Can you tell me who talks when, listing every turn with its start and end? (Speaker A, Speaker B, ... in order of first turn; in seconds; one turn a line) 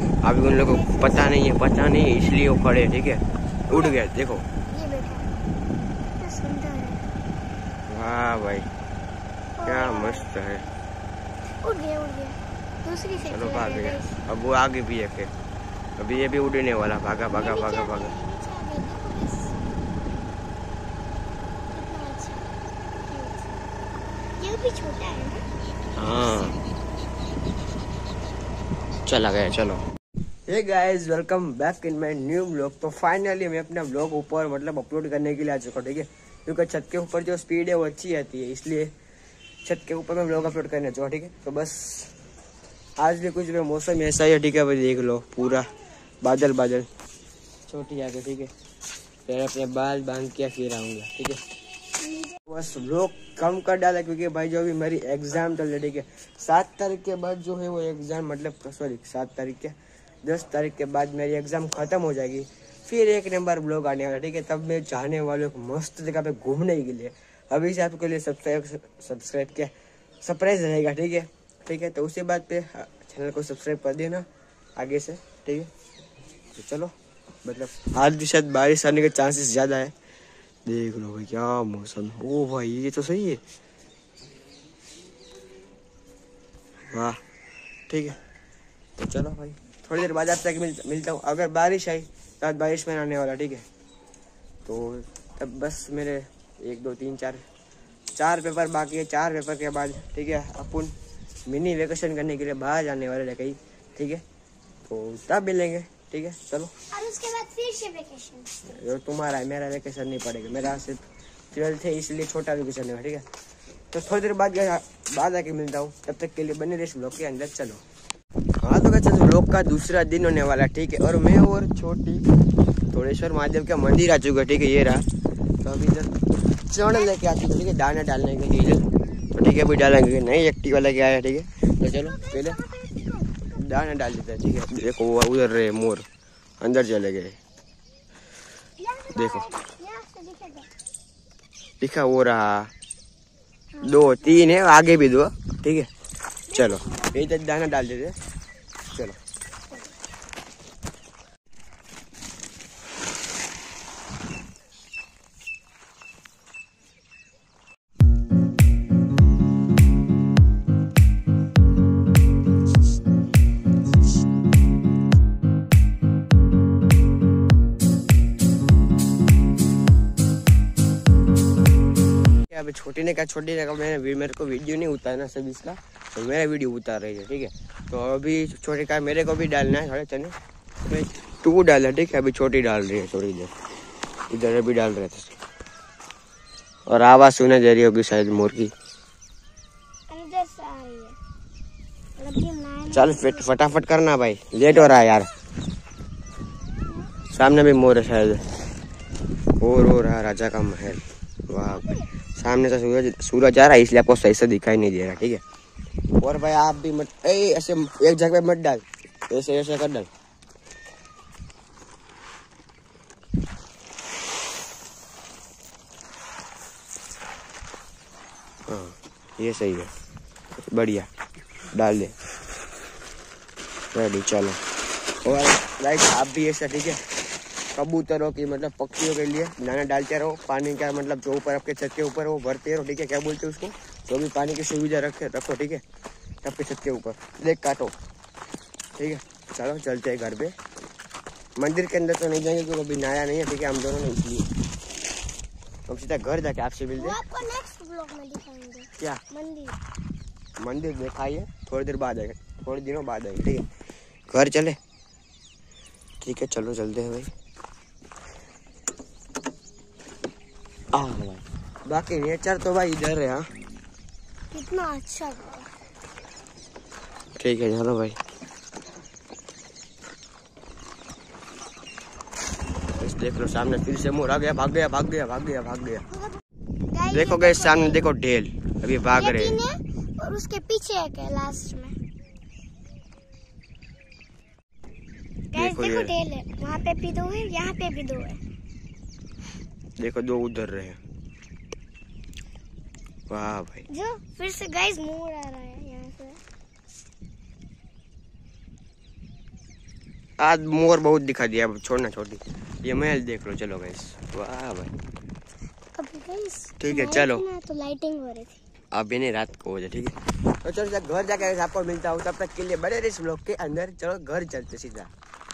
Speaker A: 0.2-4.5
Speaker B: 0.4-1.4
Speaker B: 3.7-4.0
Speaker B: 4.7-5.3
Speaker B: 6.1-7.1
Speaker A: 7.9-8.7
Speaker B: 9.6-10.3
Speaker A: 9.6-10.7
Speaker B: 11.6-14.2
Speaker A: 13.2-15.3
Speaker A: 16.0-18.1
Speaker B: 17.3-19.6
Speaker B: 21.7-22.5
Speaker B: 23.0-23.6
Speaker B: 24.4-25.4
Speaker A: 26.0-26.6
Speaker A: 29.1-29.8
Speaker A: 30.5-38.9
Speaker A: 39.6-42.1
Speaker A: 43.0-45.7
Speaker A: 46.2-46.9
Speaker A: 47.7-48.5
Speaker A: 49.3-51.4
Speaker B: 52.0-52.4
Speaker A: 52.5-59.7
Speaker A: 60.2-74.2
Speaker A: 74.8-75.7
Speaker A: 76.5-76.9
Speaker A: 77.4-79.9
Speaker A: 80.7-83.4
Speaker A: 86.9-87.2
Speaker A: 87.9-88.2
Speaker A: 89.0-93.6
Speaker A: 94.6-97.4
Speaker A: 98.2-100.9
Speaker A: 101.5-104.2
Speaker A: 104.9-106.7
Speaker B: 106.9-108.5
Speaker A: 108.6-111.0
Speaker A: 111.5-113.2
Speaker A: 113.9-117.8
Speaker A: 118.6-122.3
Speaker A: 122.9-125.0
Speaker A: 125.6-126.2
Speaker A: 126.7-132.6
Speaker B: 131.8-133.9
Speaker A: 133.5-136.1
Speaker A: 136.6-137.4
Speaker B: 138.8-140.7
Speaker A: 139.1-139.4
Speaker A: 141.8-142.7
Speaker B: 143.7-144.4
Speaker A: 143.8-145.9
Speaker B: 146.5-147.2
Speaker A: 146.5-148.2
Speaker A: 148.9-149.2
Speaker A: 172.5-183.5
Speaker A: 184.3-185.4
Speaker A: 186.9-188.7
Speaker B: 190.1-191.2
Speaker B: 192.2-193.5
Speaker A: 192.9-195.3
Speaker A: 197.3-198.4
Speaker A: 199.6-205.4
Speaker B: 201.7-202.1
Speaker A: 206.2-210.1
Speaker A: 218.7-219.9
Speaker A: 220.6-221.1
Speaker A: 221.7-222.1
Speaker A: 223.9-224.6
Speaker A: 225.2-227.0
Speaker A: 227.7-235.8
Speaker A: 236.4-237.9
Speaker A: 238.9-240.5
Speaker A: 241.6-244.5
Speaker A: 245.9-247.2
Speaker B: 246.9-249.8
Speaker A: 250.6-253.7
Speaker A: 254.3-254.8
Speaker A: 256.2-257.3
Speaker A: 260.9-263.5
Speaker B: 264.5-265.7
Speaker A: 267.4-268.2
Speaker A: 272.9-276.1
Speaker B: 276.9-278.1
Speaker A: 277.1-279.6
Speaker B: 279.1-281.9
Speaker B: 285.5-288.4
Speaker A: 285.5-286.1
Speaker A: 290.0-291.0
Speaker A: 293.3-293.9
Speaker B: 293.9-296.4
Speaker A: 300.4-304.9
Speaker B: 305.9-308.6
Speaker A: 306.8-307.4
Speaker A: 308.9-315.1